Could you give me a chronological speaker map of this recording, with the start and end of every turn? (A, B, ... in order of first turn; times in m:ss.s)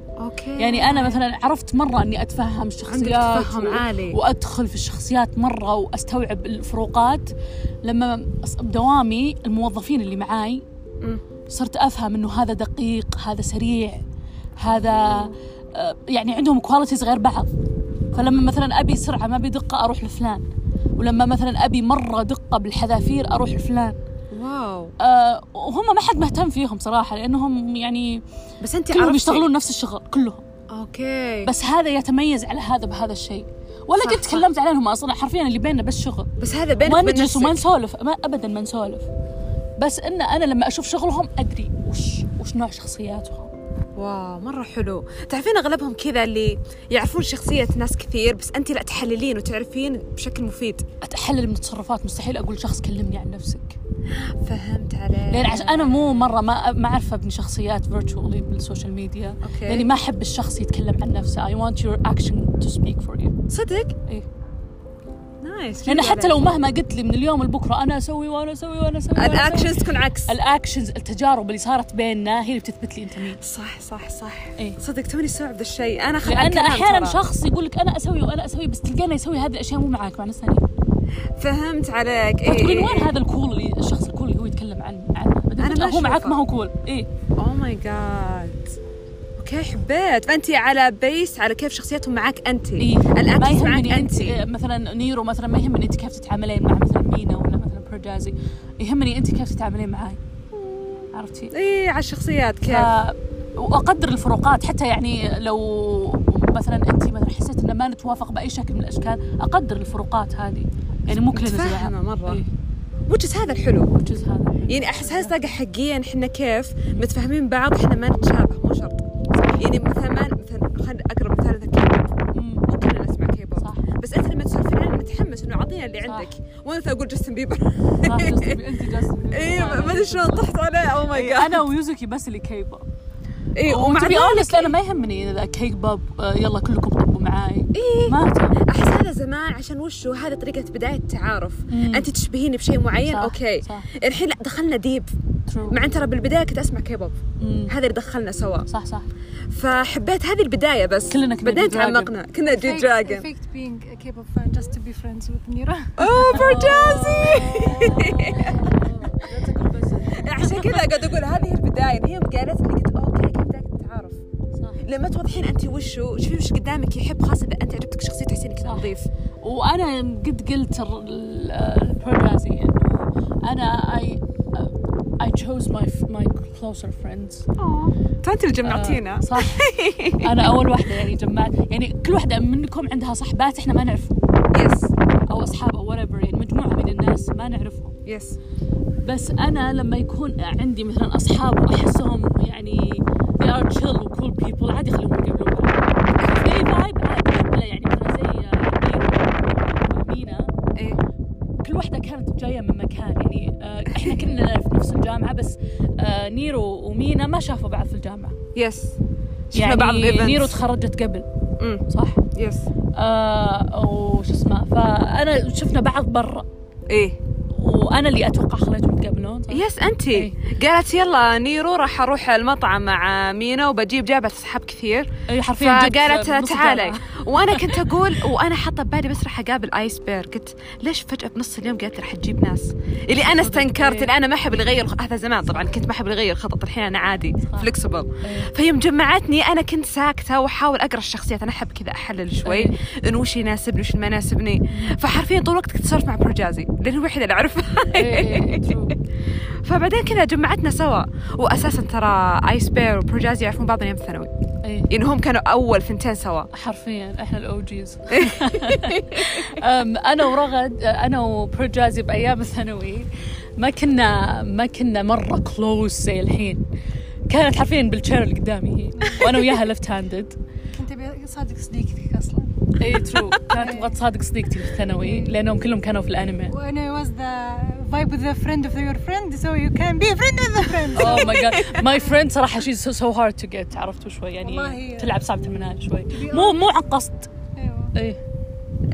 0:00.2-0:01.2 A
0:00.6-0:07.3 B
0:02.9-0:04.2 A
0:07.8-0:10.6 B
0:11.5-0:14.0 B
0:14.6-0:17.5 B
0:18.1-0:20.4 B
0:21.0-0:24.0 B
0:24.3-0:24.9 A
0:25.0-0:28.2 B
0:28.6-0:29.5 A
0:28.9-0:30.4 B
0:30.7-0:31.5 A
0:31.4-0:36.3 B
0:34.0-0:34.4 A
0:36.4-0:37.6 A
0:36.8-0:39.1 B
0:39.8-0:43.5 B
0:44.0-0:50.8 A
0:51.0-0:53.8 B
0:54.1-0:56.3 A
0:55.3-1:03.4 B
0:59.4-0:59.9 A
1:03.5-1:03.9 A
1:05.4-1:06.4 A
1:05.8-1:13.4 B
1:09.1-1:10.3 A
1:13.4-1:17.2 A
1:16.2-1:20.6 B
1:21.4-1:23.2 A
1:22.4-1:27.1 B
1:25.6-1:26.4 A
1:27.4-1:28.8 A
1:29.4-1:34.4 A
1:32.8-1:40.2 B
1:40.5-1:42.9 A
1:41.1-1:41.5 B
1:42.6-1:52.5 B
1:51.1-1:52.4 A
1:53.1-1:53.9 A
1:54.0-1:55.5 B
1:54.7-2:02.1 A
2:02.3-2:02.6 B
2:02.7-2:08.6 A
2:03.6-2:03.8 B
2:06.0-2:06.3 B
2:08.0-2:10.5 B
2:09.3-2:11.6 A
2:11.1-2:12.8 B
2:13.6-2:14.8 A
2:13.6-2:18.6 B
2:17.7-2:25.1 A
2:21.7-2:22.1 B
2:23.0-2:23.9 B
2:25.5-2:25.8 B
2:25.7-2:28.7 A
2:27.4-2:27.7 B
2:28.7-2:29.1 B
2:29.5-2:33.3 A
2:31.1-2:32.1 B
2:32.4-2:38.7 C
2:36.0-2:38.9 A
2:36.1-2:40.9 B
2:40.1-2:44.2 A
2:44.5-2:44.8 B
2:44.8-2:49.1 A
2:48.6-2:57.5 B
2:57.6-3:00.5 A
2:58.6-3:04.2 B
3:04.5-3:04.9 A
3:05.3-3:08.0 B
3:08.0-3:08.4 A
3:09.0-3:20.5 B
3:16.2-3:16.6 A
3:21.6-3:28.4 B
3:28.5-3:29.0 A
3:29.5-3:30.6 A
3:29.5-3:31.3 B
3:31.6-3:32.6 A
3:31.9-3:32.2 B
3:33.0-3:36.4 B
3:36.9-3:37.2 A
3:37.5-3:40.3 B
3:39.5-4:08.8 A
3:45.3-3:47.8 B
3:53.2-3:54.1 B
3:57.4-3:57.7 B
3:58.2-3:58.5 B
4:02.4-4:02.7 B
4:04.7-4:05.0 B
4:07.9-4:09.0 B
4:09.6-4:14.3 A
4:14.6-4:14.9 B
4:14.9-4:16.5 A
4:16.5-4:26.6 B
4:18.1-4:19.6 A
4:27.3-4:30.4 B
4:29.0-4:29.4 C
4:30.7-4:32.6 C
4:32.8-4:36.5 B
4:33.5-4:34.0 C
4:35.0-4:35.3 C
4:36.5-4:42.0 C
4:40.9-4:47.3 B
4:41.0-4:41.8 A
4:44.4-4:45.2 C
4:46.1-4:46.6 C
4:47.6-4:47.9 C